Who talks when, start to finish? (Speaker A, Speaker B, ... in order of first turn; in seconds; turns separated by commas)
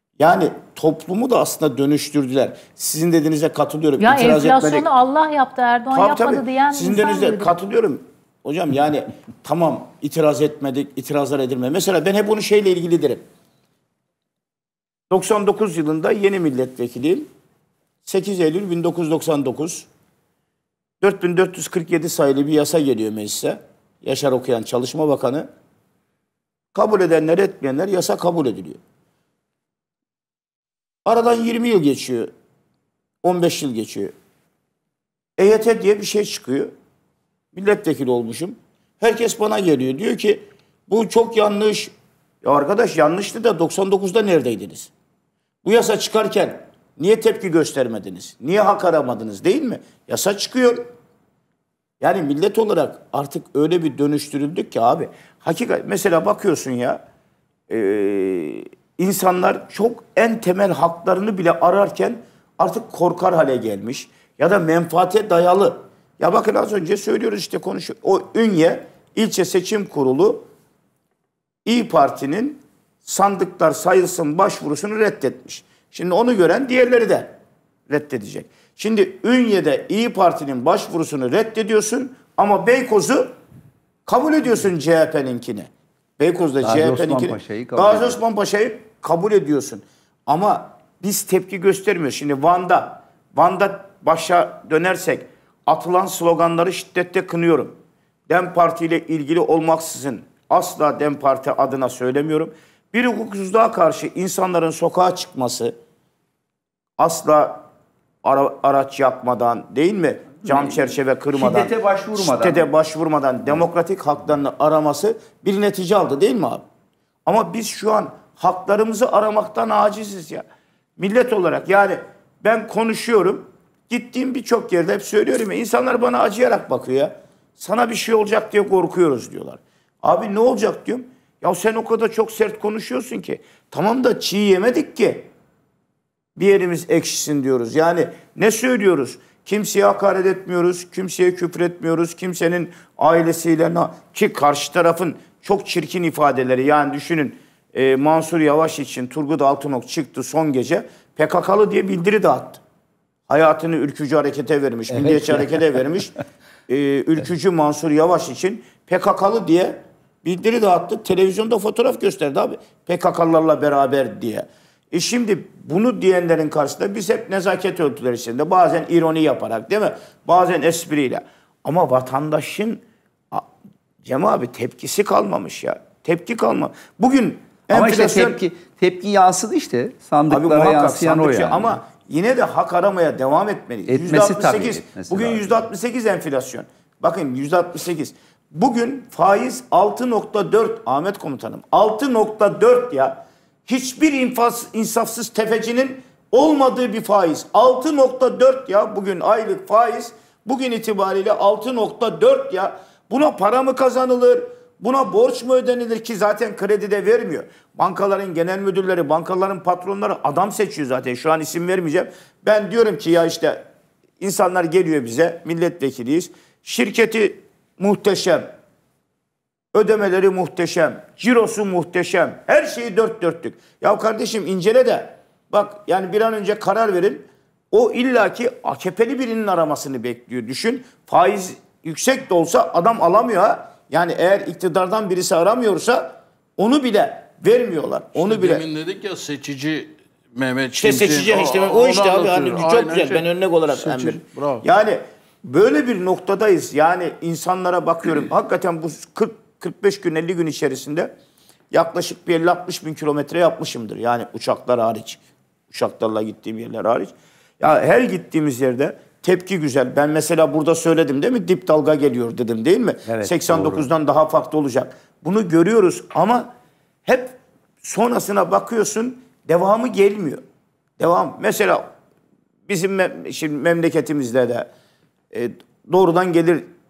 Speaker A: 0.2-4.9, Speaker B: 4.0-7.5, Speaker A: 5.9-13.2, Speaker A: 15.1-17.3, Speaker A: 18.0-19.9, Speaker A: 21.0-25.5, Speaker A: 26.7-28.8, Speaker A: 31.1-32.3, Speaker A: 33.2-34.1, Speaker A: 35.4-36.7, Speaker A: 37.5-44.9, Speaker A: 45.6-50.9, Speaker A: 52.0-57.0, Speaker A: 57.7-70.5, Speaker A: 71.6-77.3, Speaker A: 77.9-83.3, Speaker A: 84.0-97.8, Speaker C: 86.6-88.2, Speaker A: 98.3-105.7, Speaker A: 107.0-107.6, Speaker A: 108.2-116.6, Speaker C: 110.5-110.7, Speaker C: 111.3-112.6, Speaker A: 117.2-120.4, Speaker A: 121.0-135.3, Speaker A: 136.3-152.6, Speaker A: 153.3-156.1, Speaker C: 154.9-155.4, Speaker A: 156.7-173.4, Speaker A: 174.0-178.4, Speaker C: 177.7-181.8, Speaker A: 180.3-213.6, Speaker C: 183.9-185.6, Speaker A: 214.2-218.5, Speaker A: 219.7-238.6, Speaker D: 238.1-244.6, Speaker A: 240.7-251.1, Speaker A: 251.7-266.5, Speaker C: 263.1-263.9, Speaker A: 267.0-270.4, Speaker A: 271.0-271.9, Speaker A: 272.7-274.7, Speaker A: 275.3-276.7